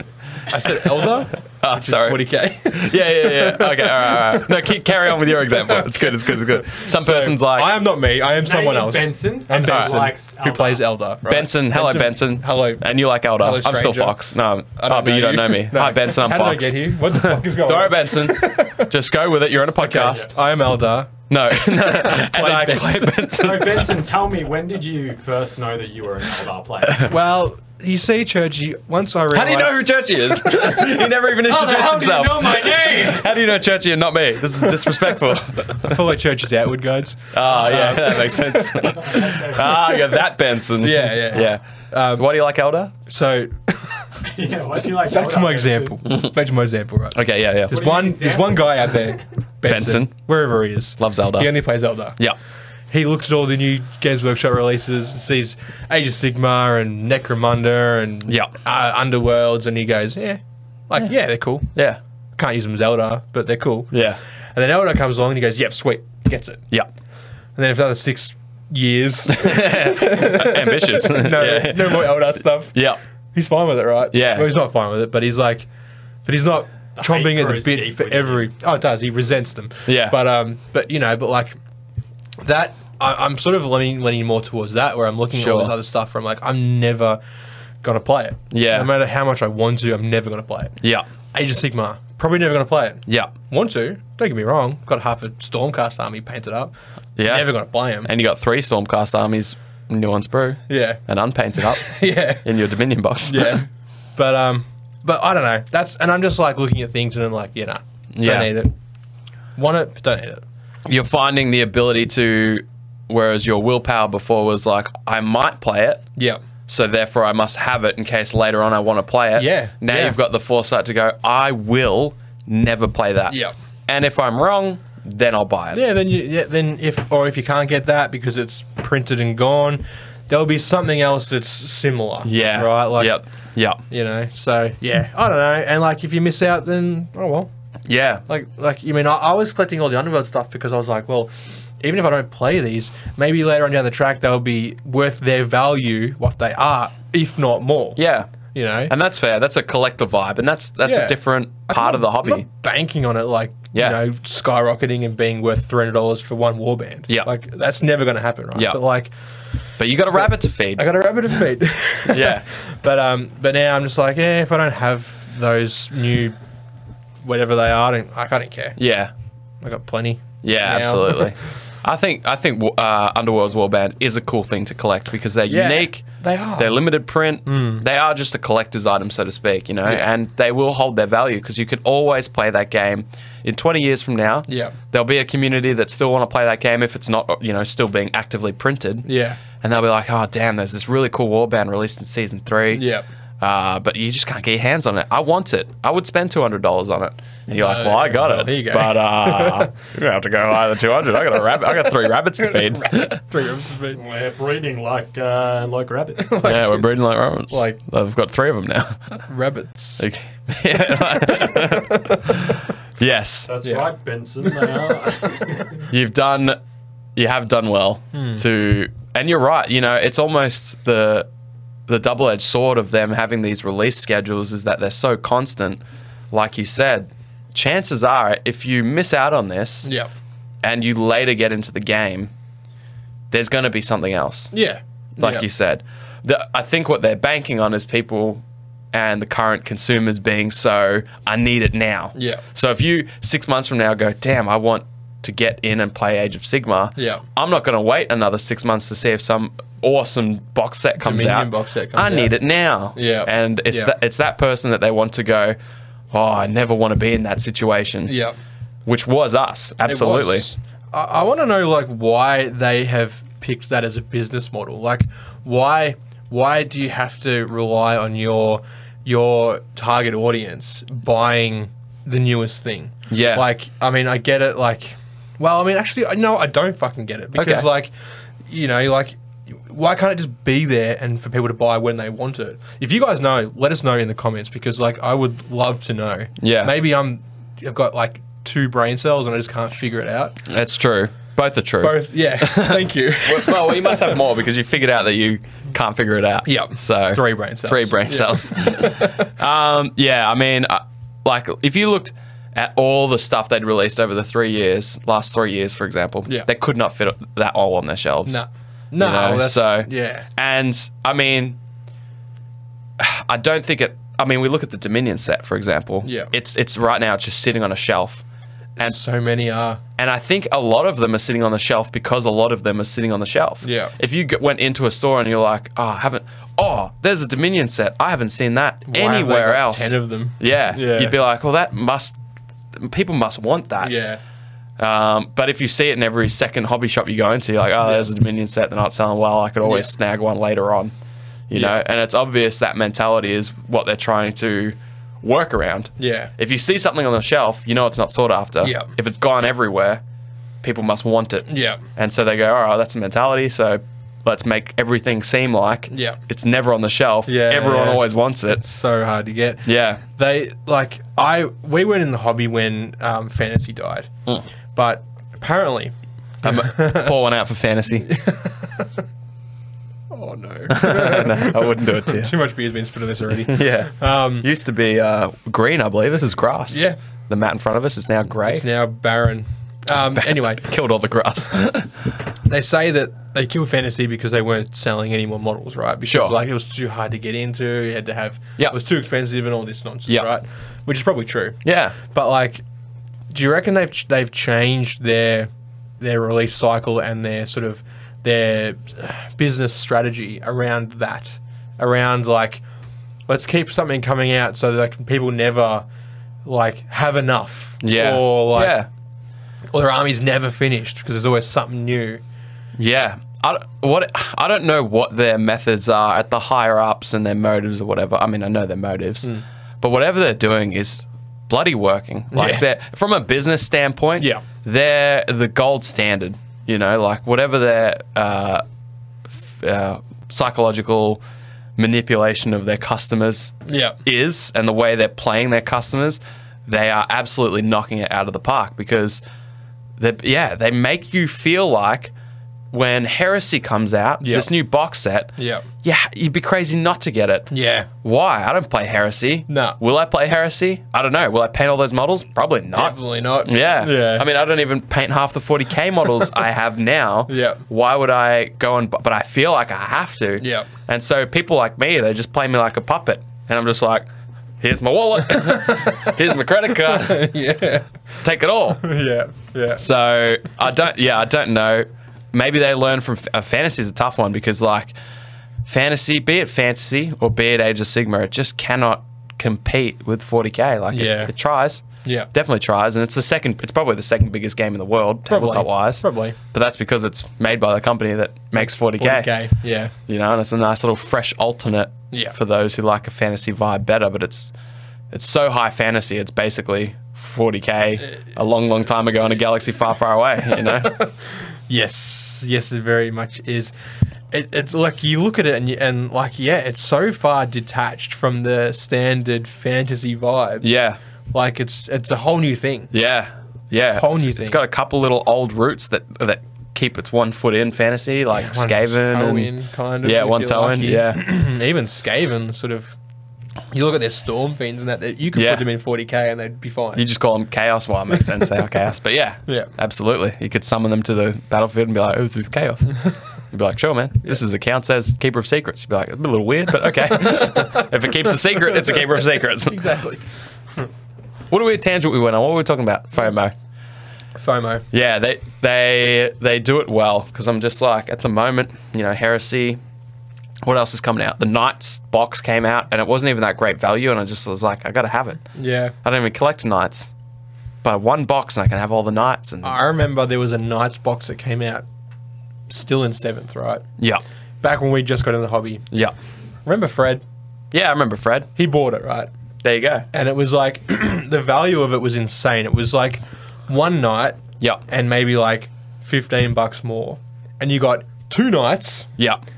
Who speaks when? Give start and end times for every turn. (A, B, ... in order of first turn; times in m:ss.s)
0:00.5-0:04.8 A
0:00.6-0:07.8 B
0:05.5-0:14.2 A
0:08.4-0:10.9 C
0:09.6-0:10.1 B
0:11.3-0:20.4 B
0:14.8-0:18.9 A
0:19.6-0:23.3 A
0:21.3-0:24.0 B
0:23.4-0:27.1 C
0:27.0-0:29.8 A
0:29.3-0:36.1 B
0:31.4-0:33.3 C
0:35.7-0:40.2 A
0:37.3-0:42.9 B
0:38.8-0:40.1 C
0:40.7-0:42.3 A
0:43.1-0:44.1 A
0:44.2-0:46.0 C
0:45.0-0:52.2 A
0:47.2-0:47.8 B
0:47.7-0:49.1 C
0:49.6-0:50.1 B
0:51.0-0:51.5 B
0:52.9-1:01.7 A
0:58.3-0:58.5 B
1:01.8-1:02.0 B
1:02.4-1:03.9 A
1:03.9-1:04.2 B
1:04.6-1:06.6 A
1:07.6-1:12.8 A
1:09.3-1:13.0 B
1:13.3-1:15.7 A
1:14.1-1:14.5 B
1:16.2-1:21.6 A
1:17.0-1:18.5 C
1:19.9-1:20.2 B
1:22.4-1:27.2 A
1:25.3-1:25.8 B
1:27.8-1:30.8 A
1:28.5-1:28.9 B
1:30.8-1:31.1 B
1:31.3-1:38.1 A
1:33.1-1:33.3 B
1:37.2-1:37.5 B
1:38.0-1:43.6 B
1:40.7-1:41.0 A
1:41.6-1:42.5 A
1:43.3-1:48.7 A
1:48.1-1:48.6 B
1:49.6-1:50.4 A
1:50.9-1:56.1 B
1:56.7-2:05.8 B
1:59.4-2:00.2 A
2:03.3-2:03.5 A
2:05.7-2:13.2 A
2:12.2-2:13.8 B
2:13.9-2:17.5 A
2:17.9-2:18.2 B
2:18.3-2:28.0 A
2:28.0-2:28.3 B
2:28.5-2:28.9 A
2:28.9-2:32.5 B
2:30.8-2:39.1 A
2:33.7-2:34.0 B
2:39.8-2:40.9 B
2:40.1-2:46.4 A
2:42.1-2:42.5 B
2:47.2-2:48.8 A
2:48.8-2:49.1 B
2:49.6-2:51.4 A
2:50.4-2:56.1 B
2:55.5-2:56.8 A
2:56.6-3:23.2 B
2:57.5-2:57.8 A
3:04.5-3:04.8 A
3:09.0-3:09.4 A
3:12.7-3:13.1 A
3:17.5-3:19.7 A
3:22.4-3:24.0 A
3:23.9-3:26.4 C
3:26.2-3:26.9 A
3:26.4-3:29.2 B
3:27.5-3:27.8 A
3:29.3-3:30.1 A
3:30.0-3:33.5 B
3:31.4-3:32.3 A
3:33.5-3:35.9 C
3:33.6-3:33.9 A
3:34.5-3:34.9 A
3:35.9-3:36.6 B
3:37.2-3:41.3 B
3:38.1-3:38.4 A
3:41.9-3:49.9 B
3:49.8-3:50.1 A
3:50.6-3:52.3 B
3:53.3-3:54.5 B
3:54.5-3:55.5 A
3:55.2-4:15.6 B
4:02.2-4:02.4 A
4:07.0-4:07.2 A
4:11.0-4:12.3 A
4:13.0-4:14.0 A
4:16.1-4:18.2 B
4:18.1-4:18.4 A
4:18.9-4:20.5 B
4:19.8-4:37.9 A
4:33.1-4:33.5 B
4:37.4-4:37.7 B
4:38.5-4:50.4 A
4:46.4-4:46.8 B
4:50.4-5:08.4 B
4:51.8-4:54.2 A
4:56.5-4:59.3 A
5:08.3-5:10.3 A
5:09.0-5:11.6 B
5:13.0-5:18.2 B
5:16.0-5:16.3 A
5:18.8-5:19.8 A
5:20.0-5:32.2 B
5:23.6-5:23.9 A
5:28.9-5:31.2 A
5:32.7-5:34.0 B
5:33.8-5:34.2 A
5:34.8-5:40.9 B
5:39.6-5:39.9 A
5:41.5-5:50.0 B
5:41.5-5:41.8 A
5:46.0-5:46.3 A
5:48.6-5:48.9 A
5:50.6-5:58.6 B
5:51.5-5:51.8 A
5:55.9-5:56.2 A
5:57.3-6:04.1 A
5:59.6-6:00.0 B
6:04.7-6:07.1 A
6:06.4-6:08.1 B
6:08.0-6:09.0 A
6:10.1-6:14.5 A
6:10.7-6:12.3 B
6:13.4-6:18.7 B
6:16.7-6:17.0 A
6:18.5-6:20.6 A
6:20.2-6:21.9 B
6:22.5-6:32.6 A
6:26.0-6:26.4 B
6:31.6-6:32.0 B
6:33.3-6:42.6 A
6:43.3-6:45.9 A
6:46.4-6:48.8 A
6:47.8-6:48.9 B
6:49.7-6:52.2 A
6:52.8-7:08.6 B
7:02.3-7:02.6 A
7:04.2-7:04.4 A
7:09.3-7:11.2 B
7:11.8-7:19.2 B
7:13.7-7:14.0 A
7:20.0-7:22.1 B
7:22.7-7:27.5 B
7:24.2-7:24.5 A
7:25.4-7:25.7 A
7:27.5-7:27.9 A
7:28.0-7:44.1 B
7:29.5-7:29.8 A
7:32.7-7:34.3 A
7:37.3-7:37.6 A
7:40.4-7:40.7 A
7:44.6-7:47.4 B
7:45.4-7:46.2 A
7:46.8-7:47.9 A
7:48.2-7:48.8 B
7:48.8-7:49.8 A
7:49.8-7:54.9 B
7:55.6-8:09.3 B
8:00.9-8:01.3 A
8:02.0-8:02.3 A
8:05.3-8:06.4 A
8:08.6-8:09.9 A
8:10.1-8:14.5 B
8:12.1-8:12.4 A
8:15.1-8:21.0 B
8:20.6-8:21.2 A
8:21.7-8:23.7 A
8:24.3-8:30.8 A
8:30.6-8:31.0 B
8:31.3-8:32.9 A
8:32.9-8:41.2 B
8:33.9-8:34.6 A
8:38.3-8:43.0 A
8:43.7-8:47.0 A
8:45.3-8:45.7 B
8:46.9-8:59.8 B
8:57.4-8:57.9 A
8:58.7-9:00.2 A
9:01.5-9:03.5 B
9:04.4-9:04.8 A
9:04.9-9:09.8 B
9:10.6-9:15.4 B
9:15.6-9:15.9 A
9:16.0-9:17.1 B
9:17.8-9:19.8 B
9:19.6-9:21.8 A
9:22.7-9:23.8 A
9:24.6-9:25.9 A
9:26.7-9:27.2 A
9:27.7-9:28.5 B
9:28.6-9:29.3 A
9:29.6-9:30.1 B
9:30.1-9:39.1 A